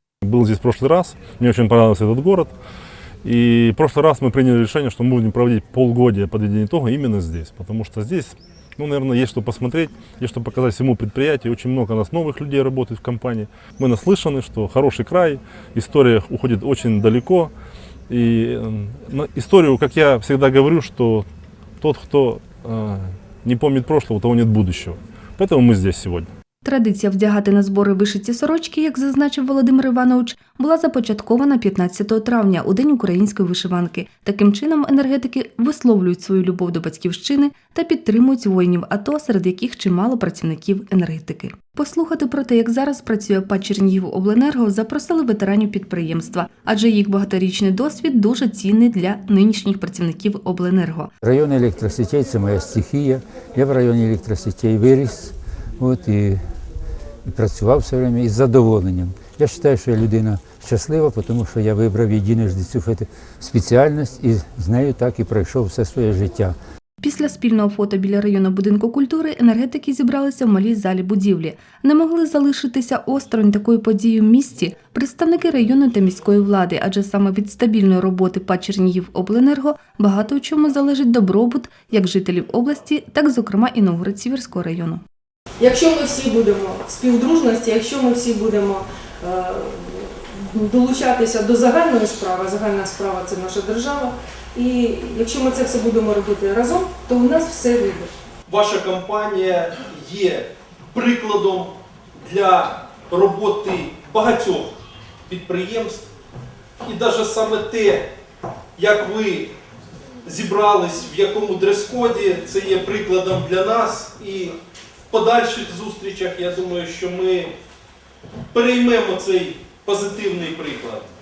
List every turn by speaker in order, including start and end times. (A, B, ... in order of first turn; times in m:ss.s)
0:00.2-0:02.5 A
0:03.2-0:17.5 A
0:18.1-0:21.2 A
0:21.8-0:26.3 A
0:26.6-0:51.1 B
0:51.2-0:56.4 C
0:57.2-1:06.5 C
1:07.0-1:25.0 B
1:25.6-1:38.1 D
1:38.5-1:44.8 E
1:45.3-1:46.1 E
1:46.8-1:48.1 E
1:48.8-1:49.5 E
1:50.2-1:54.5 E
1:55.1-1:57.5 E
1:58.5-2:01.1 E